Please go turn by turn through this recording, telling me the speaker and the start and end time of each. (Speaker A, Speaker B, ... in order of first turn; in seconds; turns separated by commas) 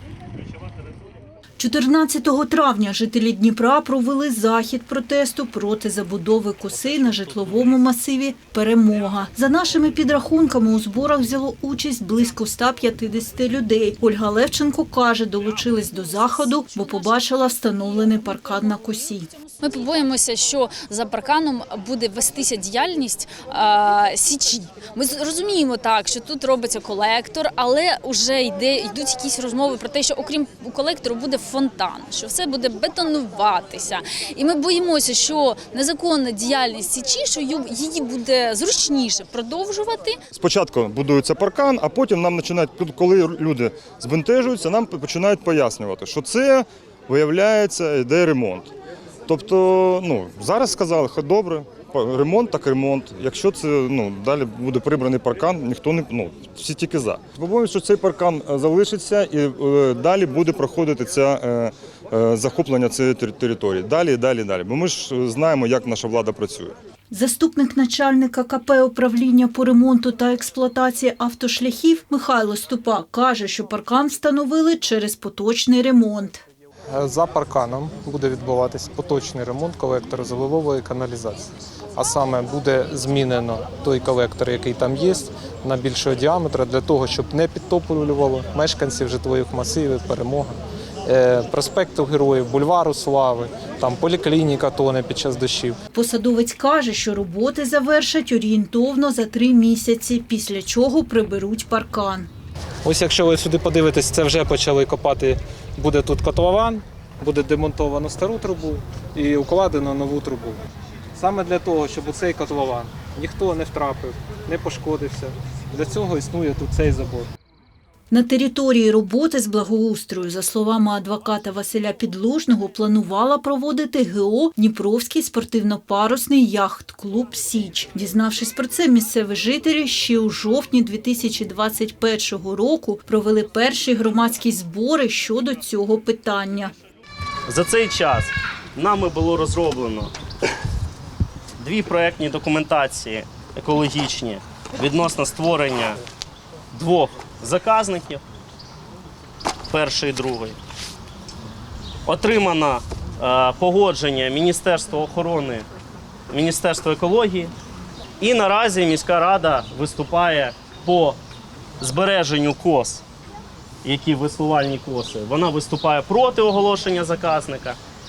Speaker A: 1.6-19.3, Speaker B: 19.6-40.2, Speaker C: 40.3-48.7, Speaker C: 49.3-66.7, Speaker A: 67.1-76.4, Speaker D: 76.9-95.8, Speaker A: 95.9-102.3, Speaker D: 102.8-110.6, Speaker D: 111.1-117.3, Speaker A: 118.1-136.7, Speaker E: 137.5-140.1, Speaker E: 141.6-146.0, Speaker E: 146.7-148.2, Speaker E: 149.7-150.6, Speaker E: 152.1-155.7, Speaker E: 156.3-157.5, Speaker E: 158.2-161.2, Speaker E: 161.8-163.0, Speaker E: 163.8-167.8